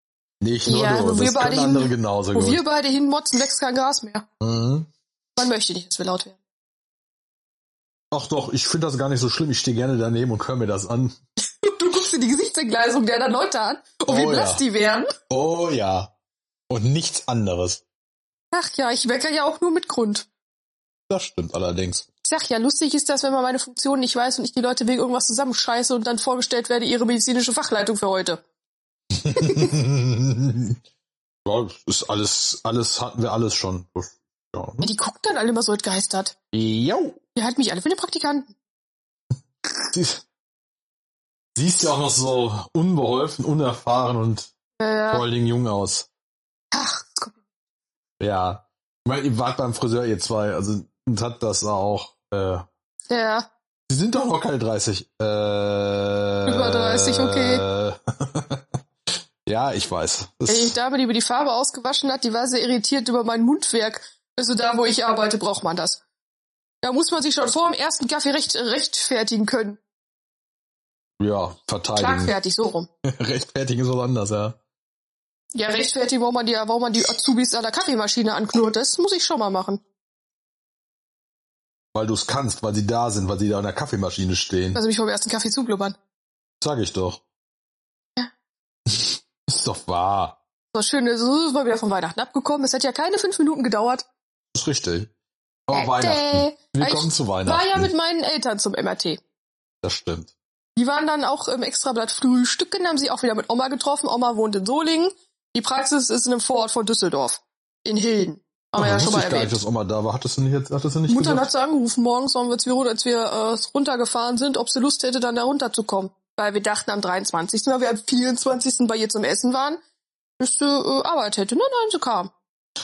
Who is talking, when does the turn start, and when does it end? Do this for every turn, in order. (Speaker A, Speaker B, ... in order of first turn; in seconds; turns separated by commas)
Speaker A: 0.4-2.6, Speaker B: 0.7-4.3, Speaker A: 4.4-4.9, Speaker B: 5.4-6.4, Speaker A: 8.1-11.2, Speaker B: 11.4-15.1, Speaker A: 14.1-14.6, Speaker A: 15.3-16.1, Speaker A: 16.7-17.8, Speaker B: 18.5-20.3, Speaker A: 21.1-22.1, Speaker B: 22.2-28.4, Speaker A: 29.2-30.8, Speaker B: 29.3-29.7, Speaker A: 31.4-34.9, Speaker B: 34.8-36.3, Speaker A: 36.5-37.2, Speaker B: 37.4-38.5, Speaker A: 39.9-40.2, Speaker A: 41.5-44.5, Speaker B: 44.8-45.2, Speaker A: 45.1-46.1, Speaker B: 46.7-47.4, Speaker A: 48.2-52.6, Speaker B: 53.1-53.5, Speaker A: 53.9-58.8, Speaker B: 56.5-57.6, Speaker A: 59.5-60.8, Speaker B: 60.5-66.0, Speaker B: 66.8-69.8, Speaker A: 71.2-72.3, Speaker B: 72.0-72.9, Speaker A: 73.0-74.6, Speaker B: 75.5-79.8, Speaker A: 81.9-84.8, Speaker B: 84.8-86.0, Speaker A: 86.6-87.2, Speaker A: 88.9-90.4, Speaker B: 90.7-94.1, Speaker A: 94.5-95.1, Speaker A: 95.7-97.9, Speaker B: 95.7-99.2, Speaker A: 99.8-100.3, Speaker B: 100.8-109.6, Speaker A: 108.8-111.5, Speaker B: 111.1-119.8, Speaker B: 120.4-122.3